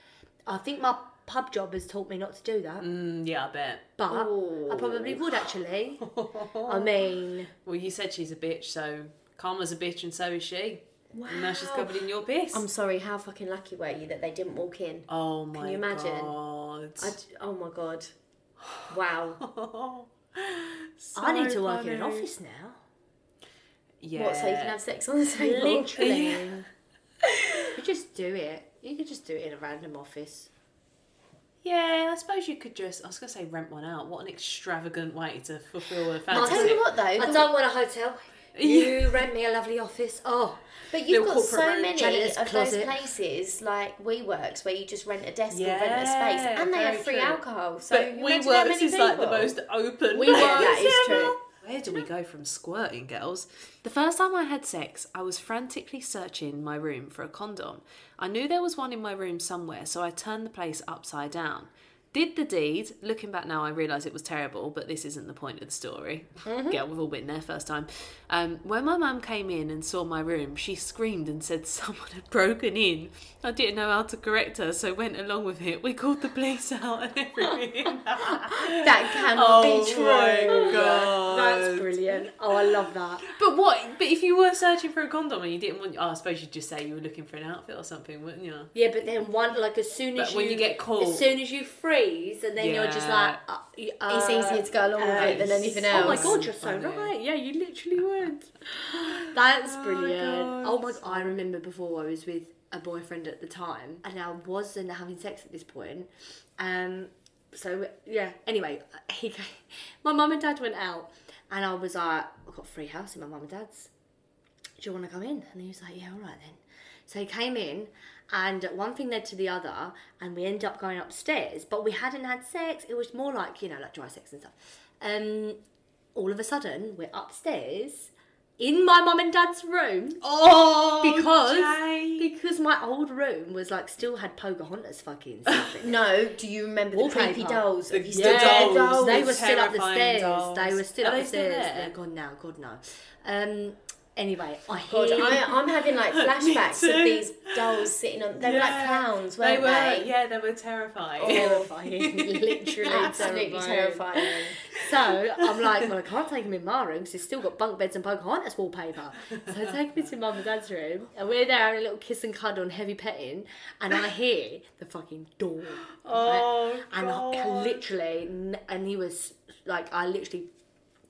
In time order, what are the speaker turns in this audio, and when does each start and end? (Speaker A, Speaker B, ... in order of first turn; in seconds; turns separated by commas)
Speaker A: 0.5-2.9, Speaker B: 2.8-3.9, Speaker A: 4.0-6.1, Speaker C: 4.1-5.2, Speaker B: 6.0-6.9, Speaker A: 6.7-7.5, Speaker B: 7.7-12.7, Speaker C: 11.1-16.4, Speaker B: 15.1-17.1, Speaker C: 17.0-18.1, Speaker C: 18.9-19.4, Speaker B: 19.4-22.3, Speaker A: 21.1-22.8, Speaker B: 24.0-24.8, Speaker C: 24.1-26.1, Speaker A: 25.4-26.7, Speaker B: 25.9-26.6, Speaker A: 27.7-30.5, Speaker B: 31.6-36.8, Speaker A: 36.3-40.6, Speaker C: 36.3-37.5, Speaker B: 38.5-39.2, Speaker C: 40.9-49.5, Speaker B: 41.1-41.9, Speaker A: 41.8-43.0, Speaker B: 45.5-88.7, Speaker A: 50.1-50.9, Speaker C: 50.3-51.4, Speaker C: 78.4-80.9, Speaker A: 80.5-83.2, Speaker A: 88.7-113.9, Speaker B: 90.2-91.3, Speaker B: 92.6-93.4, Speaker C: 94.1-96.4, Speaker B: 95.0-97.1, Speaker B: 98.9-101.4, Speaker A: 114.8-125.6, Speaker A: 126.1-130.2, Speaker B: 130.2-132.3, Speaker A: 131.0-136.0, Speaker C: 135.8-139.4, Speaker A: 136.9-145.6, Speaker B: 137.9-141.9, Speaker C: 144.9-150.1, Speaker B: 145.1-153.3, Speaker C: 151.2-151.7, Speaker A: 151.2-170.5, Speaker C: 152.8-154.6, Speaker B: 154.7-155.9, Speaker B: 165.9-167.8